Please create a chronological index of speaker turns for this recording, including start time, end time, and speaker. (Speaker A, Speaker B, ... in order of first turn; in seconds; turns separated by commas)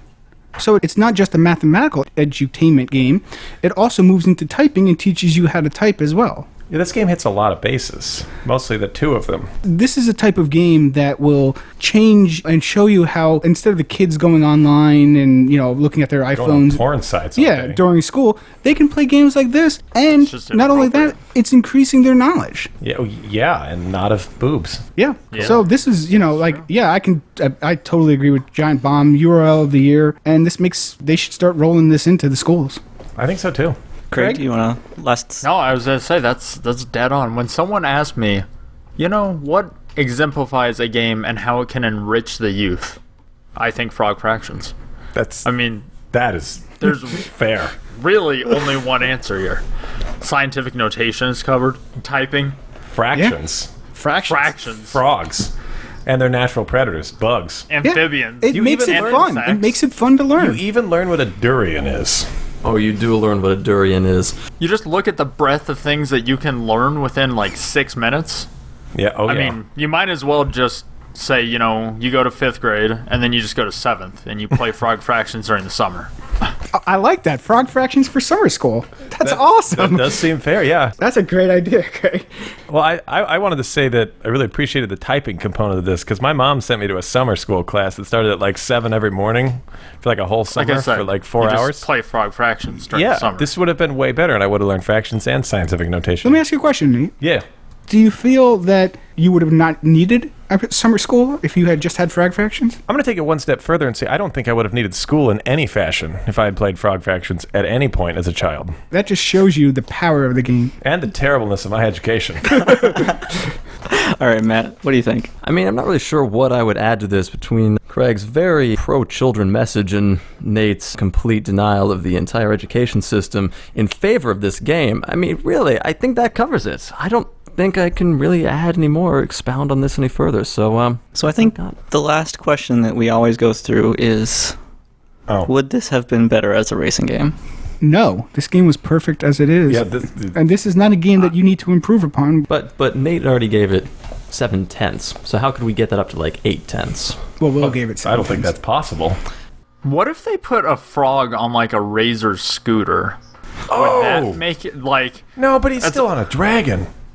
Speaker A: 0.6-6.5, Speaker B: 6.7-9.5, Speaker A: 9.6-16.8, Speaker B: 16.3-17.8, Speaker A: 17.3-22.7, Speaker C: 20.1-21.2, Speaker B: 22.8-24.8, Speaker A: 24.9-32.8, Speaker C: 25.3-25.6, Speaker C: 26.3-26.6, Speaker B: 33.2-33.8, Speaker D: 34.1-35.5, Speaker A: 34.1-34.4, Speaker C: 35.4-38.5, Speaker C: 39.0-43.0, Speaker C: 43.5-44.7, Speaker B: 45.1-45.5, Speaker C: 45.4-45.9, Speaker B: 46.0-47.7, Speaker C: 46.8-47.2, Speaker C: 47.8-49.6, Speaker C: 50.2-52.6, Speaker B: 52.9-53.7, Speaker A: 53.9-54.5, Speaker C: 54.2-55.0, Speaker B: 54.9-55.5, Speaker B: 56.0-57.7, Speaker C: 57.7-59.8, Speaker A: 57.8-60.6, Speaker B: 58.5-59.4, Speaker B: 60.4-62.3, Speaker E: 62.6-64.4, Speaker C: 64.6-68.5, Speaker B: 68.9-69.6, Speaker C: 69.3-76.1, Speaker A: 76.7-80.3, Speaker B: 79.2-81.0, Speaker A: 81.0-82.3, Speaker B: 82.7-91.9, Speaker C: 90.5-93.5, Speaker B: 92.9-96.4, Speaker A: 96.2-97.1, Speaker A: 97.9-102.8, Speaker B: 102.9-108.8, Speaker A: 108.9-110.7, Speaker B: 110.8-113.1, Speaker D: 113.9-115.3, Speaker E: 115.4-131.7, Speaker D: 131.1-134.6, Speaker D: 135.5-137.3, Speaker A: 137.8-142.4, Speaker B: 139.7-140.4, Speaker E: 142.5-147.2, Speaker A: 147.4-148.5, Speaker B: 147.6-149.2, Speaker C: 149.8-153.2, Speaker B: 153.7-154.4, Speaker C: 153.7-155.2, Speaker B: 155.3-156.9, Speaker C: 155.8-156.1